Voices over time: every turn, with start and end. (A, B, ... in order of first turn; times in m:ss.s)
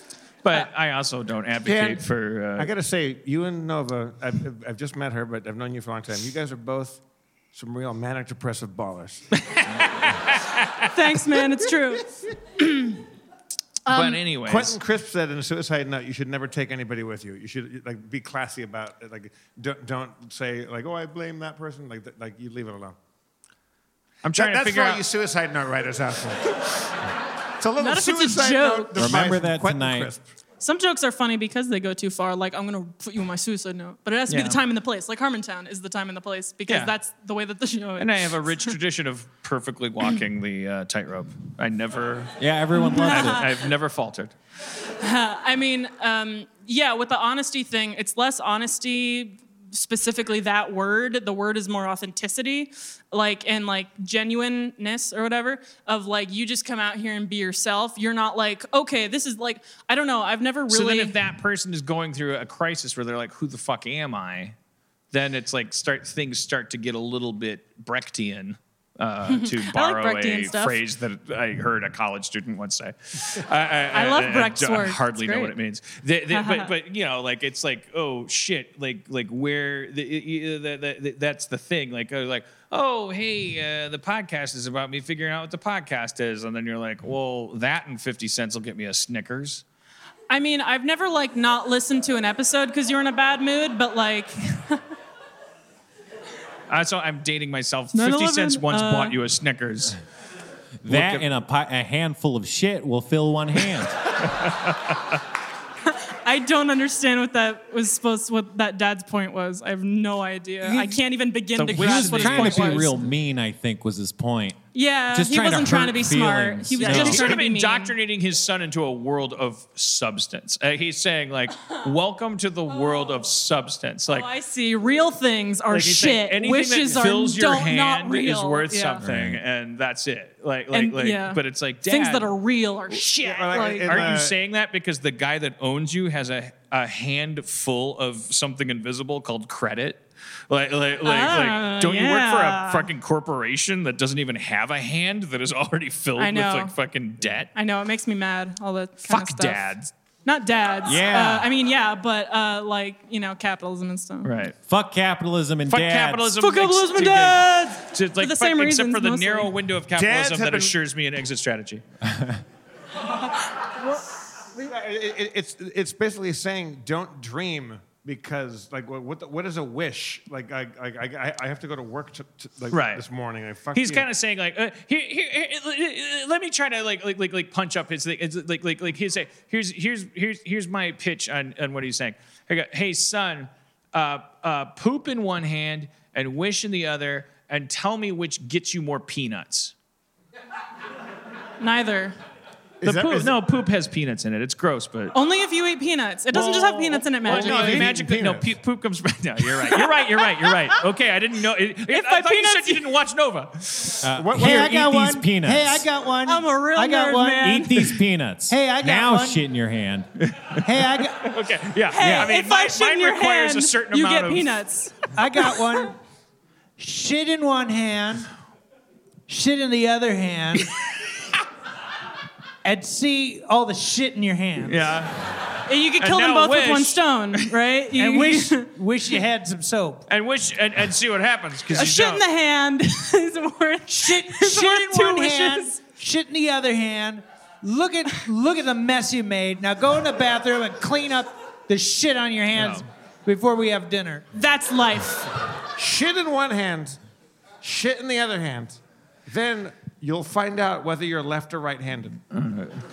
0:00.4-0:02.7 A
0:01.6-0:07.0 B
0:07.5-0:09.4 B
0:09.4-0:10.9 A
0:10.9-0:13.0 C
0:13.8-0:14.2 C
0:13.9-0:14.8 A
0:14.4-0:23.0 B
0:24.2-0:25.0 A
0:24.3-0:26.6 B
0:27.6-0:30.2 B
0:27.8-0:29.1 C
0:29.0-0:30.1 D
0:30.6-0:38.1 C
0:34.3-0:34.6 A
0:36.7-0:36.9 A
0:38.0-0:42.3 A
0:42.4-0:43.5 D
0:42.7-0:43.6 C
0:42.9-0:44.3 A
0:45.0-1:01.2 C
1:00.7-1:04.5 A
1:05.1-1:29.6 A
1:09.3-1:10.8 C
1:13.9-1:15.5 C
1:16.3-1:16.7 C
1:30.3-1:34.8 C
1:36.7-1:40.0 A
1:37.9-1:39.2 C
1:40.8-1:43.9 D
1:40.8-1:41.2 A
1:45.9-1:53.0 C
1:51.5-1:53.1 A
1:51.7-1:54.6 D
1:54.7-1:57.9 C
1:55.1-1:57.4 D
1:56.8-2:04.3 A
2:02.8-2:03.2 C
2:04.1-2:09.0 C
2:05.7-2:12.3 A
2:09.0-2:09.4 D
2:10.7-2:14.1 C
2:12.9-2:27.5 A
2:13.2-2:14.4 B
2:21.0-2:22.9 C
2:26.2-2:26.7 C
2:27.5-2:29.6 C
2:29.0-2:29.9 A
2:30.2-2:34.3 C
2:30.8-2:31.5 D
2:34.2-2:34.6 A
2:34.6-2:36.3 D
2:35.7-2:41.8 A
2:36.4-2:39.5 C
2:39.9-2:40.8 B
2:43.6-2:44.0 C
2:44.6-2:54.1 B
2:52.7-2:53.0 A
2:53.7-3:09.7 A
3:11.6-3:12.2 C
3:12.8-3:13.3 B
3:12.8-3:15.2 A
3:15.1-3:17.9 C
3:16.3-3:24.0 A
3:16.4-3:18.5 B
3:21.9-3:22.8 C
3:24.0-3:25.9 D
3:24.0-3:24.8 B
3:24.4-3:27.5 E
3:26.2-3:28.0 C
3:27.4-3:30.1 D
3:28.5-3:29.4 E
3:30.3-3:30.6 A
3:30.6-3:31.3 E
3:31.2-3:34.6 A
3:31.9-3:35.8 C
3:32.0-3:32.3 D
3:35.1-3:36.0 E
3:36.8-3:38.3 E
3:39.3-3:40.8 E
3:42.6-3:44.9 E
3:44.6-3:47.5 A
3:45.7-3:48.7 C
3:47.9-3:50.0 E
3:50.1-3:52.2 A
3:51.7-3:55.8 C
3:53.9-4:04.2 E
4:02.5-4:02.8 A
4:04.3-4:05.3 C
4:05.8-4:07.0 B
4:07.6-4:12.2 B
4:12.3-4:12.8 A